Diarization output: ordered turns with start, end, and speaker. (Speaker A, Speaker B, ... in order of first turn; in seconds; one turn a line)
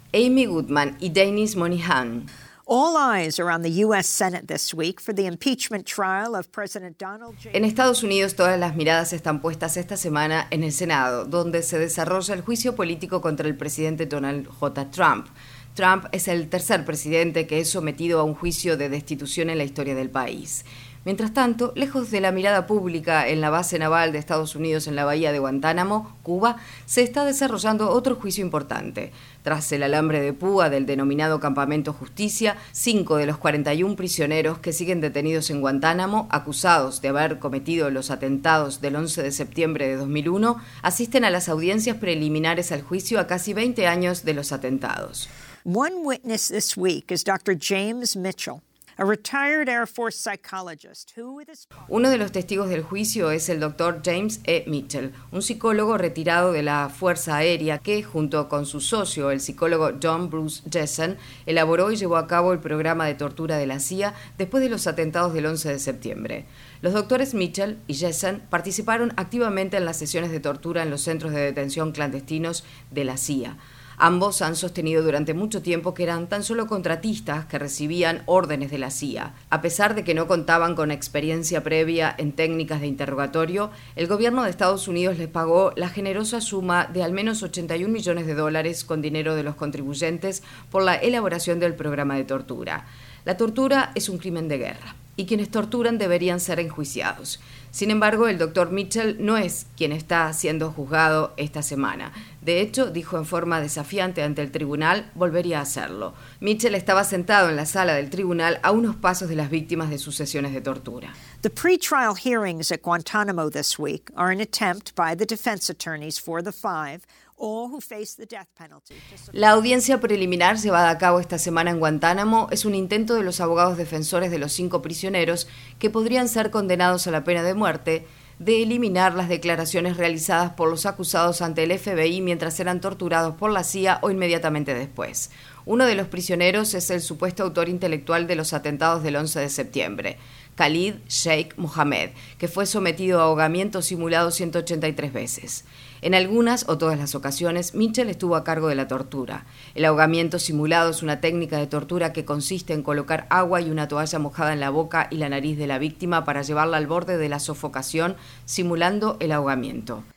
Speaker A: 0.1-2.3
Speaker B: 2.7-7.6
Speaker A: 7.5-45.3
Speaker B: 45.7-51.7
Speaker A: 51.9-111.2
Speaker B: 111.4-119.3
Speaker A: 119.3-160.1